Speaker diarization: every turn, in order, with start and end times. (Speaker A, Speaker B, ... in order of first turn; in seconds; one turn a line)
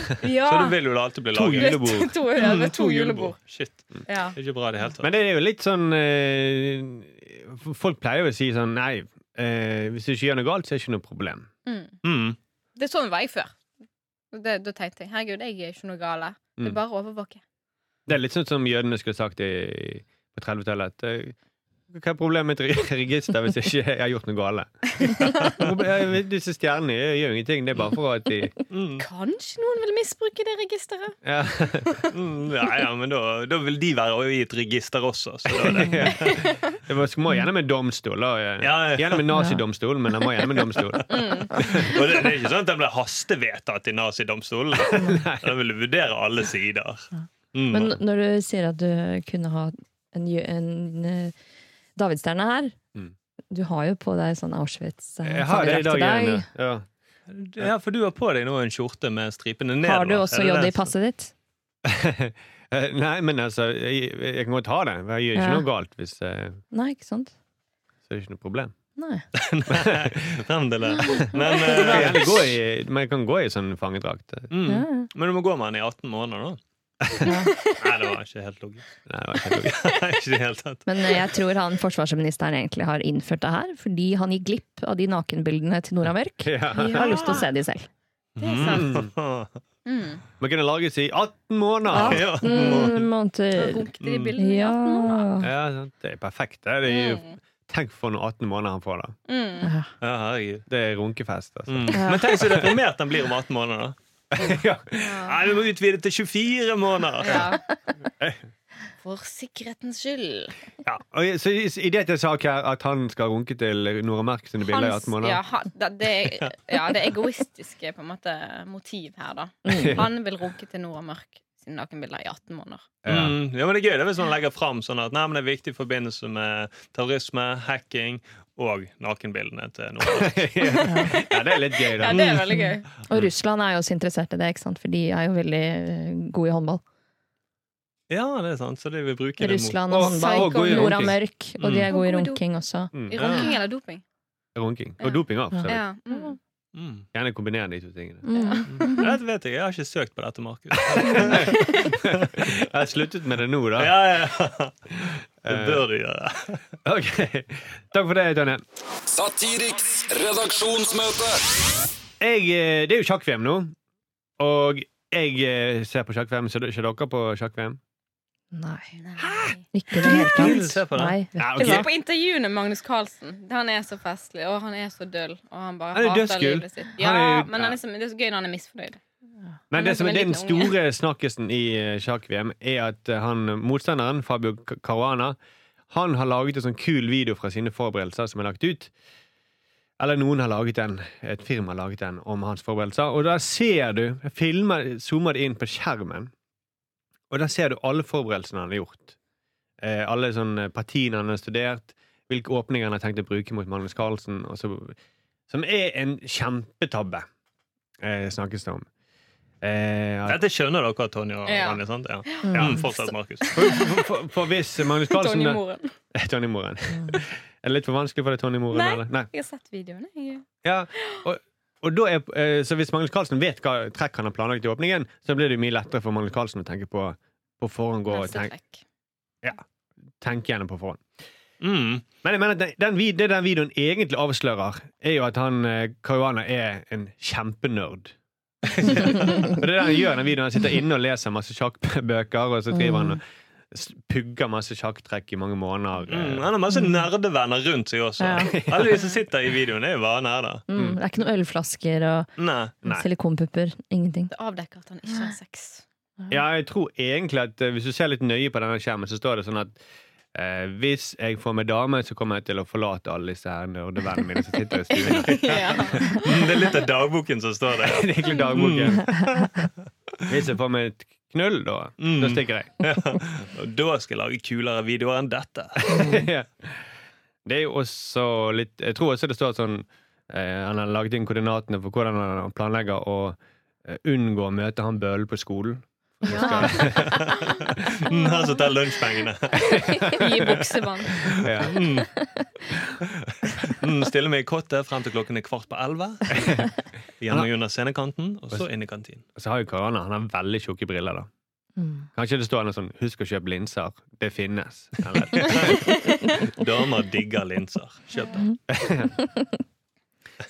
Speaker A: 0.2-0.8
Speaker B: 0.2-5.1
Speaker C: 1.3-2.1
Speaker A: 1.5-3.4
Speaker A: 4.1-4.3
Speaker C: 5.0-11.5
Speaker A: 11.7-12.0
Speaker B: 12.0-12.4
Speaker A: 12.8-13.6
Speaker A: 14.3-17.4
Speaker C: 18.1-21.3
Speaker C: 21.9-28.6
Speaker B: 28.7-29.1
Speaker A: 29.0-31.1
Speaker C: 31.2-32.0
Speaker B: 32.1-36.4
Speaker C: 35.6-42.0
Speaker A: 36.2-36.6
Speaker B: 38.6-39.3
Speaker D: 39.3-39.6
Speaker B: 40.8-41.0
Speaker A: 41.1-42.0
Speaker B: 41.6-48.0
Speaker D: 44.9-45.2
Speaker C: 45.0-45.5
Speaker D: 47.7-51.3
Speaker D: 52.0-52.8
Speaker D: 53.5-56.5
Speaker C: 55.2-56.9
Speaker B: 57.3-60.9
Speaker D: 59.8-61.3
Speaker C: 61.8-66.6
Speaker D: 65.3-65.7
Speaker D: 66.7-67.3
Speaker C: 68.1-68.7
Speaker D: 69.0-69.2
Speaker B: 69.3-72.5
Speaker C: 69.7-70.4
Speaker D: 71.3-71.9
Speaker C: 71.7-74.5
Speaker B: 74.5-76.6
Speaker D: 74.6-75.1
Speaker C: 77.0-77.3
Speaker D: 77.2-77.5
Speaker A: 77.3-77.8
Speaker B: 77.7-78.8
Speaker C: 79.0-79.9
Speaker B: 79.5-81.2
Speaker D: 80.8-87.9
Speaker C: 86.4-87.4
Speaker A: 86.7-87.4
Speaker B: 88.4-89.5
Speaker A: 88.4-88.9
Speaker C: 88.6-89.1
Speaker A: 89.8-90.2
Speaker C: 90.4-92.4
Speaker D: 91.9-95.5
Speaker B: 91.9-93.0
Speaker A: 92.5-92.9
Speaker A: 93.5-95.3
Speaker B: 94.0-94.3
Speaker C: 95.4-99.2
Speaker A: 96.8-97.3
Speaker A: 99.3-99.7
Speaker D: 99.6-99.9
Speaker B: 100.0-100.7
Speaker C: 100.7-102.8
Speaker B: 101.7-104.0
Speaker D: 101.9-102.3
Speaker C: 104.3-105.3
Speaker A: 105.0-105.3
Speaker B: 105.2-107.5
Speaker A: 107.2-107.6
Speaker A: 109.0-110.6
Speaker C: 110.8-115.4
Speaker A: 114.6-122.9
Speaker D: 119.6-120.0
Speaker C: 119.7-120.1
Speaker C: 123.0-123.4
Speaker B: 123.1-130.7
Speaker C: 130.1-132.4
Speaker A: 130.6-132.8
Speaker D: 130.8-131.2
Speaker B: 132.1-132.3
Speaker D: 132.5-136.8
Speaker B: 138.1-139.9
Speaker D: 139.4-142.9
Speaker C: 139.9-141.2
Speaker A: 140.0-141.1
Speaker B: 141.6-141.9
Speaker A: 141.9-142.4
Speaker C: 142.9-143.5
Speaker A: 143.1-144.0
Speaker B: 143.2-143.6
Speaker C: 144.5-145.8
Speaker A: 145.0-146.4
Speaker D: 145.5-146.3
Speaker B: 146.7-147.1
Speaker C: 147.1-148.2
Speaker D: 148.2-149.2
Speaker A: 148.3-148.9
Speaker B: 148.8-152.3
Speaker C: 151.1-154.0
Speaker B: 153.8-156.6
Speaker C: 155.4-155.8
Speaker C: 156.8-158.6
Speaker E: 159.1-161.4
Speaker C: 162.2-163.7
Speaker C: 164.4-167.8
Speaker D: 168.5-168.9
Speaker A: 169.0-169.6
Speaker D: 169.6-171.9
Speaker B: 170.0-171.2
Speaker C: 171.3-171.9
Speaker A: 171.6-179.0
Speaker C: 175.9-177.8
Speaker C: 179.7-185.4
Speaker A: 179.7-180.7
Speaker C: 185.9-188.9
Speaker C: 190.0-196.3
Speaker C: 197.3-199.2
Speaker C: 199.8-205.0
Speaker C: 205.5-207.3
Speaker C: 208.0-208.9
Speaker C: 209.6-210.4
Speaker B: 210.3-213.8
Speaker A: 211.4-214.0
Speaker D: 212.4-212.8
Speaker C: 212.5-212.8
Speaker C: 213.5-215.6
Speaker A: 215.0-215.9
Speaker C: 216.1-219.3
Speaker A: 218.7-220.4
Speaker C: 220.6-228.5
Speaker A: 228.1-228.8
Speaker C: 230.2-231.1
Speaker B: 231.6-232.0
Speaker C: 232.2-246.5
Speaker D: 242.7-243.2
Speaker B: 246.1-250.6
Speaker D: 248.2-248.6
Speaker C: 248.4-248.9
Speaker D: 250.7-252.3
Speaker B: 252.4-252.7
Speaker D: 252.8-254.3
Speaker A: 254.3-255.8
Speaker C: 256.3-259.8
Speaker C: 260.3-266.2
Speaker A: 264.9-266.4
Speaker B: 265.1-269.7
Speaker C: 267.8-269.2
Speaker D: 269.2-269.6
Speaker C: 270.3-272.9
Speaker B: 272.0-276.0
Speaker C: 275.8-276.8
Speaker D: 275.9-276.3
Speaker C: 277.4-287.2
Speaker A: 286.3-288.7
Speaker D: 286.3-286.6
Speaker B: 286.4-292.1
Speaker A: 289.5-291.3
Speaker C: 291.3-291.9
Speaker D: 292.1-292.5
Speaker B: 293.2-296.6
Speaker C: 296.3-296.7
Speaker B: 297.2-299.2
Speaker C: 299.4-301.3
Speaker D: 301.8-302.1
Speaker C: 302.1-305.9
Speaker B: 305.3-308.5
Speaker C: 308.7-309.1